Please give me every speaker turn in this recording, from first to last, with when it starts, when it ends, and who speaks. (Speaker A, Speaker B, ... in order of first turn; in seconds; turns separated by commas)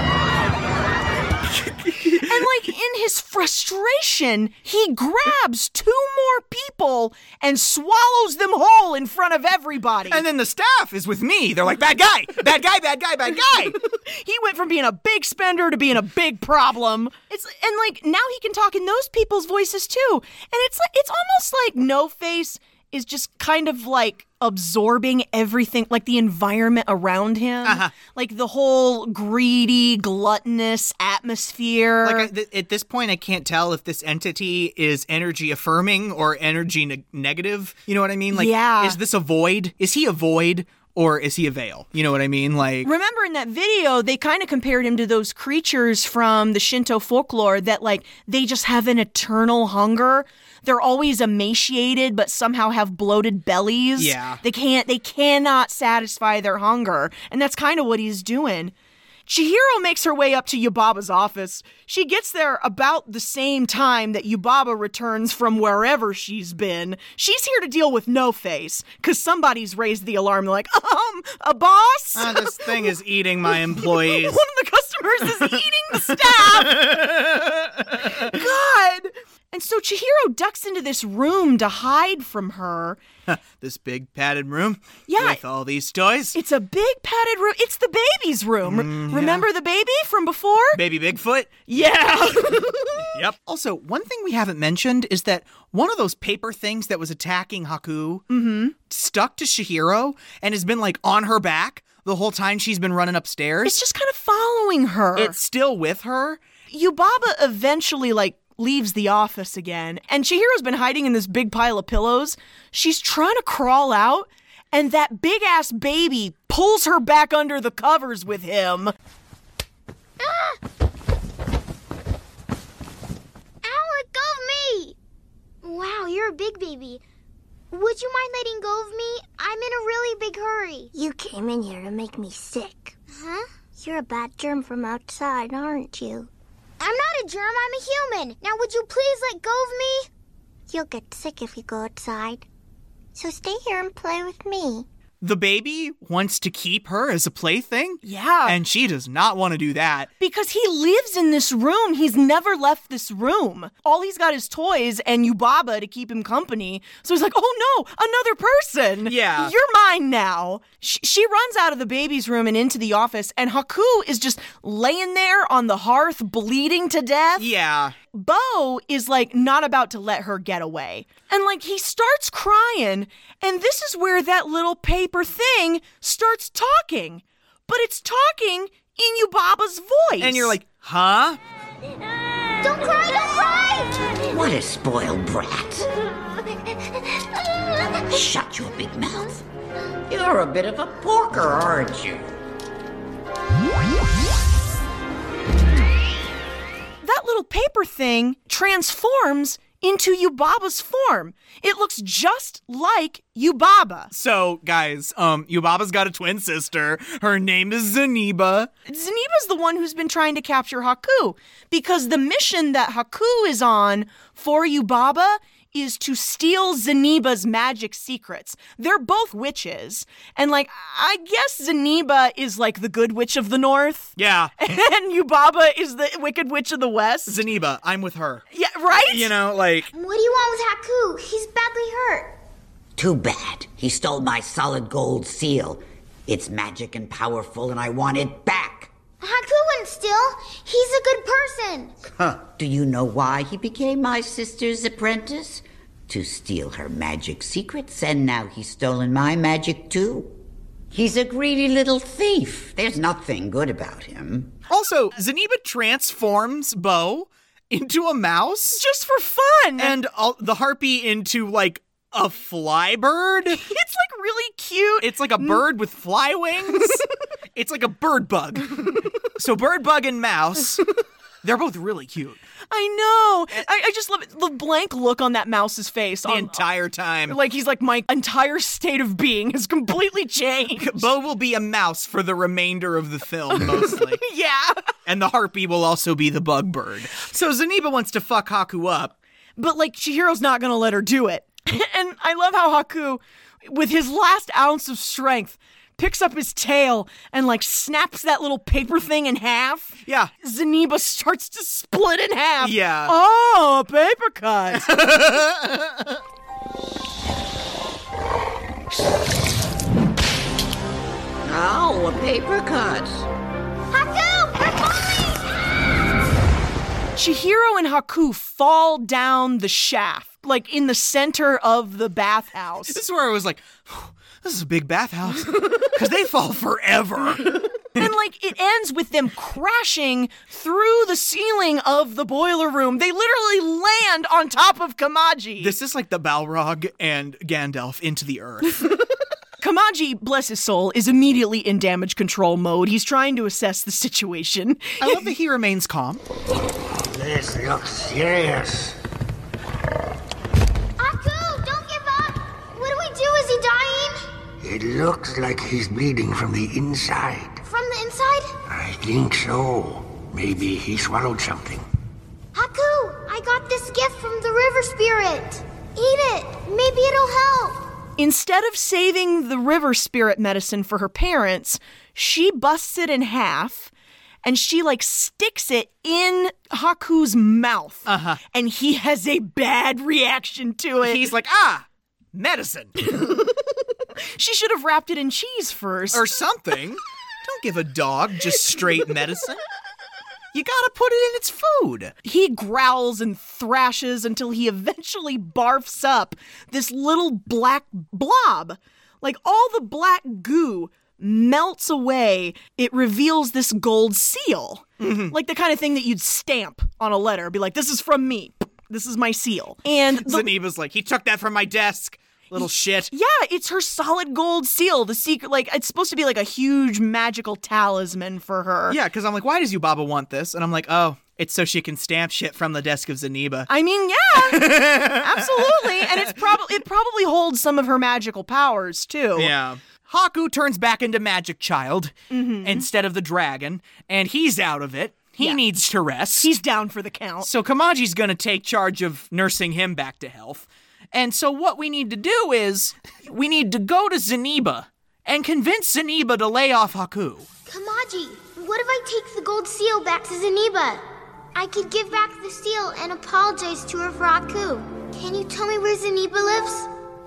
Speaker A: 1.7-2.5, Speaker B: 2.2-10.2, Speaker A: 10.1-13.8, Speaker B: 13.8-32.3, Speaker A: 27.6-27.9, Speaker A: 32.0-42.9, Speaker B: 38.3-39.0, Speaker B: 42.8-58.7, Speaker A: 54.0-54.4, Speaker B: 59.3-72.9, Speaker A: 72.1-74.4, Speaker B: 73.5-76.9, Speaker A: 75.4-78.3, Speaker B: 78.1-83.0, Speaker A: 83.3-86.3, Speaker B: 85.1-85.4, Speaker B: 86.3-90.8, Speaker A: 88.6-89.5, Speaker A: 90.7-92.4, Speaker B: 91.7-93.0, Speaker A: 93.1-98.2, Speaker B: 98.3-98.7, Speaker A: 98.8-103.8, Speaker B: 103.6-105.4, Speaker A: 105.2-106.4, Speaker B: 106.7-118.9, Speaker C: 120.2-120.6, Speaker C: 123.6-125.0, Speaker C: 125.6-127.0, Speaker C: 127.7-130.9, Speaker D: 130.9-133.0, Speaker C: 133.1-133.5, Speaker D: 133.7-136.3, Speaker C: 136.8-140.1, Speaker D: 140.7-142.4, Speaker D: 143.1-144.9, Speaker A: 145.2-150.1, Speaker B: 148.0-148.6, Speaker B: 150.2-167.5, Speaker A: 159.1-159.5, Speaker A: 167.4-167.9, Speaker B: 168.1-180.6, Speaker A: 180.2-181.4, Speaker C: 182.6-184.0, Speaker E: 184.3-185.9, Speaker E: 188.1-189.4, Speaker E: 190.1-192.3, Speaker B: 197.0-204.1, Speaker A: 204.1-208.7, Speaker B: 208.9-227.4, Speaker A: 224.2-224.6, Speaker A: 227.2-229.9, Speaker B: 228.5-229.3, Speaker C: 229.9-232.3, Speaker E: 233.0-238.9, Speaker C: 239.2-241.9, Speaker E: 242.1-250.3, Speaker E: 250.9-254.6, Speaker A: 254.7-258.8, Speaker B: 258.7-259.9, Speaker A: 259.8-263.6, Speaker B: 263.5-265.6, Speaker A: 265.0-267.0, Speaker B: 266.7-267.0, Speaker A: 267.6-270.8, Speaker A: 271.4-272.4, Speaker B: 272.7-276.6, Speaker A: 276.2-277.4, Speaker B: 277.3-281.1, Speaker A: 280.8-284.2, Speaker B: 283.6-284.8, Speaker A: 285.1-289.1, Speaker B: 289.6-304.9, Speaker A: 300.1-300.3, Speaker A: 302.6-303.1, Speaker A: 304.8-306.1, Speaker E: 311.4-313.3, Speaker C: 313.9-315.2, Speaker B: 317.1-323.0, Speaker A: 322.9-328.0, Speaker B: 327.9-335.7, Speaker A: 335.6-338.9, Speaker B: 339.6-345.3, Speaker A: 345.0-346.2, Speaker F: 347.0-348.9, Speaker C: 351.0-354.3, Speaker F: 354.6-357.6, Speaker C: 357.6-358.6, Speaker F: 358.7-361.8, Speaker C: 362.5-367.8, Speaker B: 368.2-373.9, Speaker B: 374.4-381.2, Speaker A: 378.1-378.4, Speaker A: 381.0-383.0, Speaker B: 383.0-386.2, Speaker A: 386.1-389.6, Speaker A: 390.5-392.1, Speaker B: 392.2-410.5, Speaker A: 405.0-405.3, Speaker A: 410.1-413.1, Speaker B: 412.6-419.0, Speaker A: 418.9-423.7, Speaker B: 423.7-429.5, Speaker A: 424.3-426.4, Speaker A: 429.3-436.5, Speaker B: 432.3-432.9, Speaker B: 436.4-437.5, Speaker A: 437.4-447.4, Speaker C: 447.7-451.0, Speaker C: 451.6-456.9